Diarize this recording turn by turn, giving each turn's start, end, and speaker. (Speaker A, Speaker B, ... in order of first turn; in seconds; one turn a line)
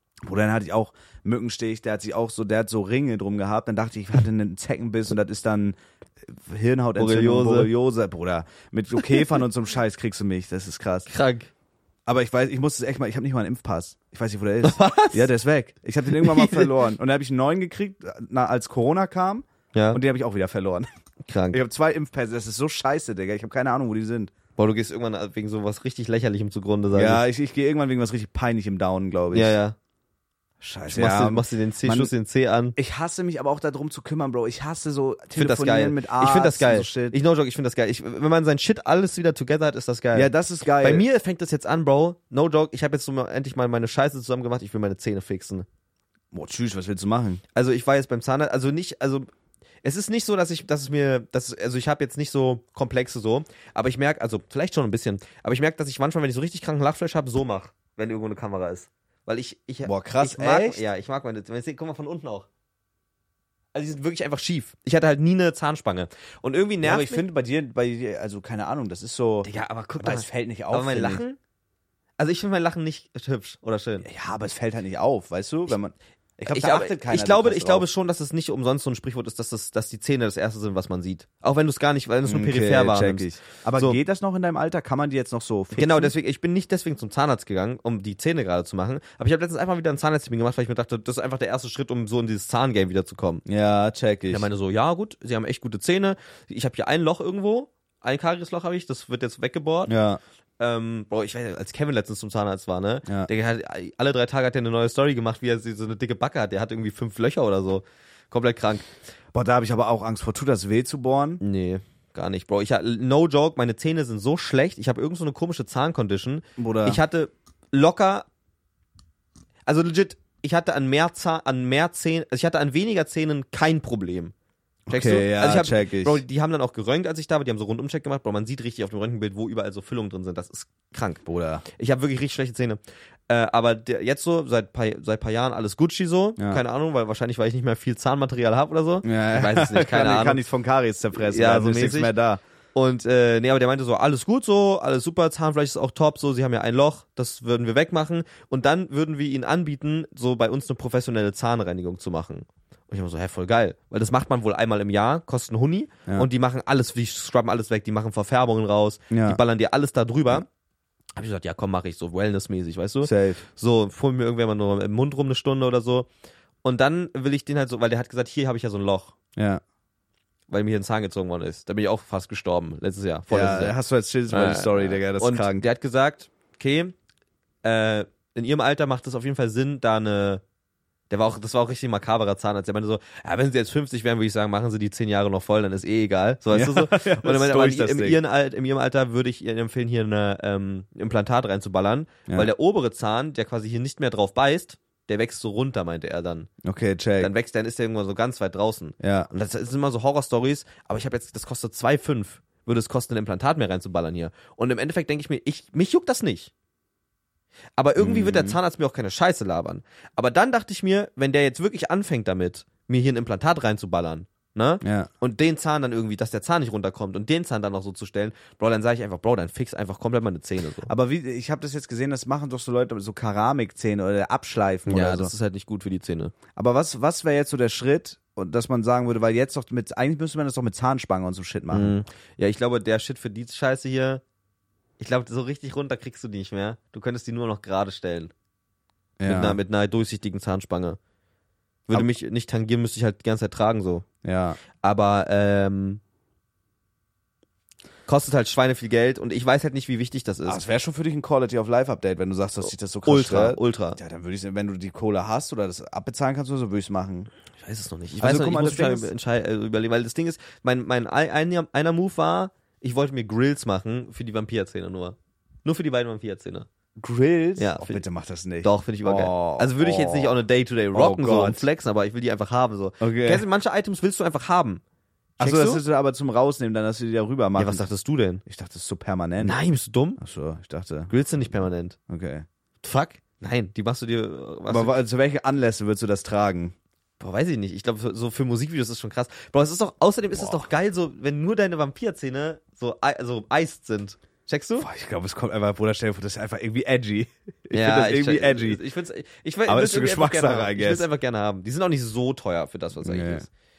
Speaker A: 0.2-11.1
Speaker B: 7.0-7.7
Speaker B: 11.1-11.5
Speaker A: 12.1-20.9
Speaker B: 14.6-15.3
Speaker B: 16.1-16.9
Speaker B: 19.7-20.0
Speaker B: 21.2-21.6
Speaker A: 21.5-24.3
Speaker B: 24.6-27.2
Speaker A: 26.9-29.6
Speaker B: 29.3-29.8
Speaker A: 30.6-32.1
Speaker B: 30.9-32.8
Speaker A: 32.8-37.2
Speaker B: 35.3-45.7
Speaker A: 40.1-41.0
Speaker A: 46.3-47.4
Speaker B: 47.5-49.3
Speaker B: 49.8-62.5
Speaker A: 59.8-60.8
Speaker B: 63.7-67.2
Speaker A: 66.8-69.5
Speaker B: 69.4-71.4
Speaker A: 70.0-71.2
Speaker B: 72.2-74.0
Speaker A: 74.0-77.9
Speaker B: 76.5-84.0
Speaker A: 82.2-86.1
Speaker B: 85.7-93.4
Speaker A: 93.5-94.5
Speaker B: 94.3-99.9
Speaker A: 99.9-100.2
Speaker B: 100.6-108.9
Speaker A: 109.3-111.4
Speaker B: 111.4-118.2
Speaker A: 116.6-117.0
Speaker B: 119.7-124.3
Speaker A: 124.9-126.2
Speaker B: 124.9-140.4
Speaker A: 131.2-131.6
Speaker A: 136.4-136.6
Speaker A: 139.0-142.4
Speaker B: 141.1-142.1
Speaker B: 142.7-160.4
Speaker A: 159.1-159.4
Speaker B: 161.2-166.1
Speaker A: 163.0-163.4
Speaker B: 166.6-169.1
Speaker A: 169.3-169.6
Speaker B: 170.5-173.8
Speaker A: 173.3-175.7
Speaker B: 174.3-176.9
Speaker B: 177.6-180.4
Speaker B: 181.1-196.5
Speaker A: 186.5-188.2
Speaker A: 196.6-197.3
Speaker B: 197.2-206.5
Speaker A: 199.0-199.3
Speaker B: 207.8-220.9
Speaker A: 208.0-208.6
Speaker A: 214.8-215.1
Speaker A: 220.9-225.3
Speaker B: 224.9-226.3
Speaker A: 226.6-232.0
Speaker B: 231.7-234.2
Speaker B: 235.0-238.3
Speaker A: 239.2-239.6
Speaker B: 239.2-241.0
Speaker B: 241.9-244.1
Speaker A: 244.2-244.6
Speaker B: 244.8-246.0
Speaker B: 248.1-250.6
Speaker A: 250.4-257.3
Speaker B: 253.1-254.0
Speaker B: 257.6-266.7
Speaker A: 258.2-259.1
Speaker A: 267.0-270.4
Speaker B: 267.6-268.0
Speaker B: 268.6-274.8
Speaker A: 270.9-271.6
Speaker A: 273.0-273.4
Speaker B: 275.4-275.8
Speaker A: 275.4-277.9
Speaker B: 277.6-278.4
Speaker A: 278.4-279.6
Speaker B: 279.4-280.2
Speaker A: 280.2-281.1
Speaker B: 281.1-282.0
Speaker A: 282.1-282.4
Speaker B: 282.8-284.9
Speaker A: 284.7-286.7
Speaker B: 287.2-294.9
Speaker A: 290.3-290.6
Speaker A: 294.8-298.8
Speaker B: 297.7-303.5
Speaker A: 299.7-301.1
Speaker A: 303.0-303.4